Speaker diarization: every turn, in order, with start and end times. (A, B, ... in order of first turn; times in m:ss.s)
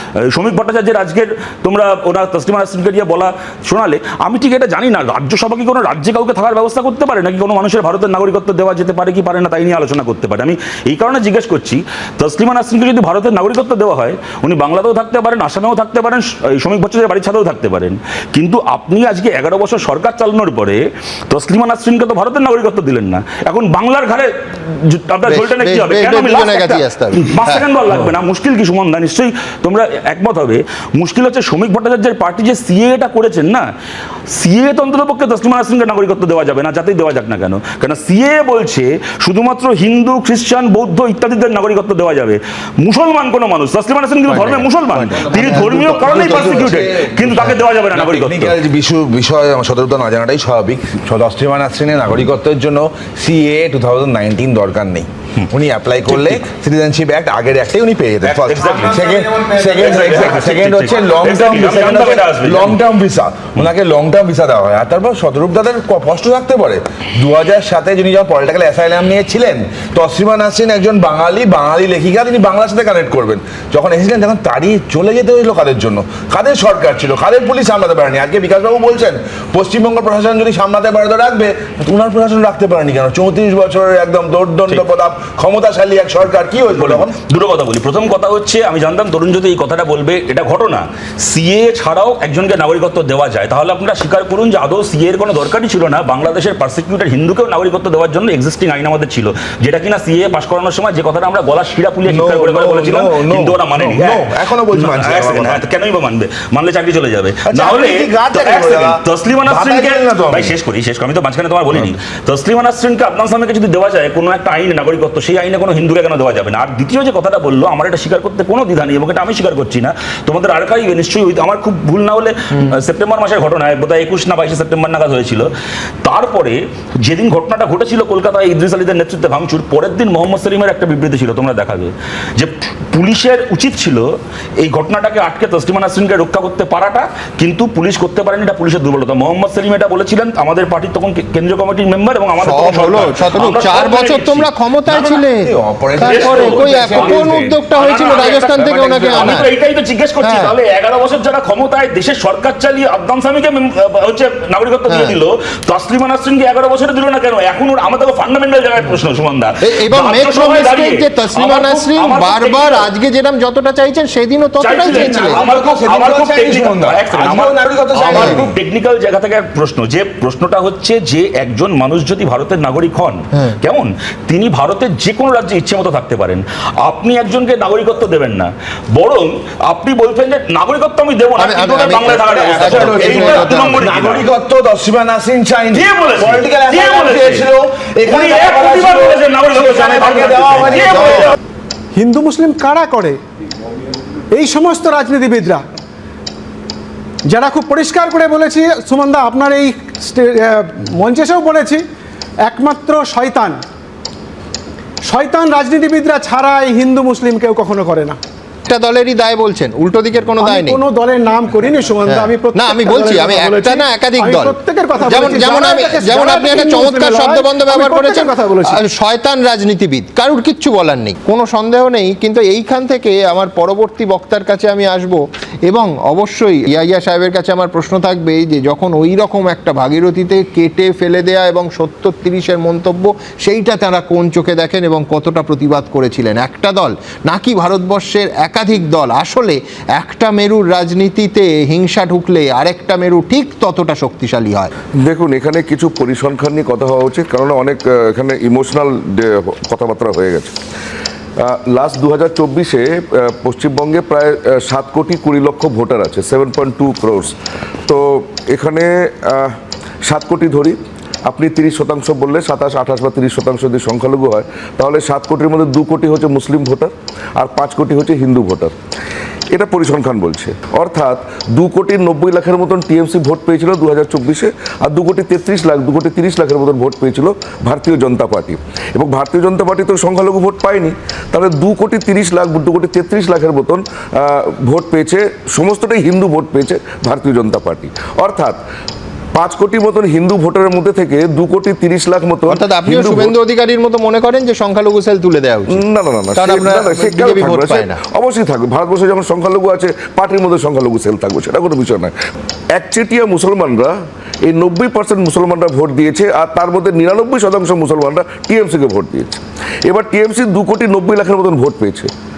0:00.3-0:33.7 A
0:25.2-0:27.7 B
0:34.3-0:48.6 A
0:44.3-0:45.4 B
0:45.2-1:27.1 C
0:56.1-0:56.3 A
0:58.2-1:02.8 A
1:26.7-2:05.5 A
1:42.0-1:45.6 C
1:47.5-1:50.5 C
2:06.0-2:14.1 A
2:14.6-2:24.5 A
2:22.4-2:29.5 B
2:24.9-2:27.6 C
2:26.0-2:42.8 A
2:28.6-2:29.4 C
2:30.2-2:30.5 B
2:34.9-2:35.2 B
2:39.6-2:45.4 B
2:44.6-3:04.3 A
2:44.9-2:48.5 C
3:01.4-3:03.8 B
3:02.2-3:11.4 C
3:05.7-3:07.5 A
3:08.0-3:11.3 A
3:12.0-3:13.2 D
3:14.3-3:15.6 D
3:17.3-3:21.8 D
3:22.5-3:23.6 D
3:25.0-3:28.2 D
3:28.7-3:30.8 B
3:30.4-3:38.8 D
3:32.1-4:04.7 B
4:05.0-4:10.5 E
4:11.4-4:17.3 E
4:17.9-4:19.5 E
4:20.1-4:28.7 E
4:29.5-4:48.6 E
4:49.3-4:53.3 E
4:52.5-4:55.8 B
4:55.7-5:02.1 E
4:56.3-4:58.0 B
5:02.7-5:03.9 E
5:04.4-5:12.1 E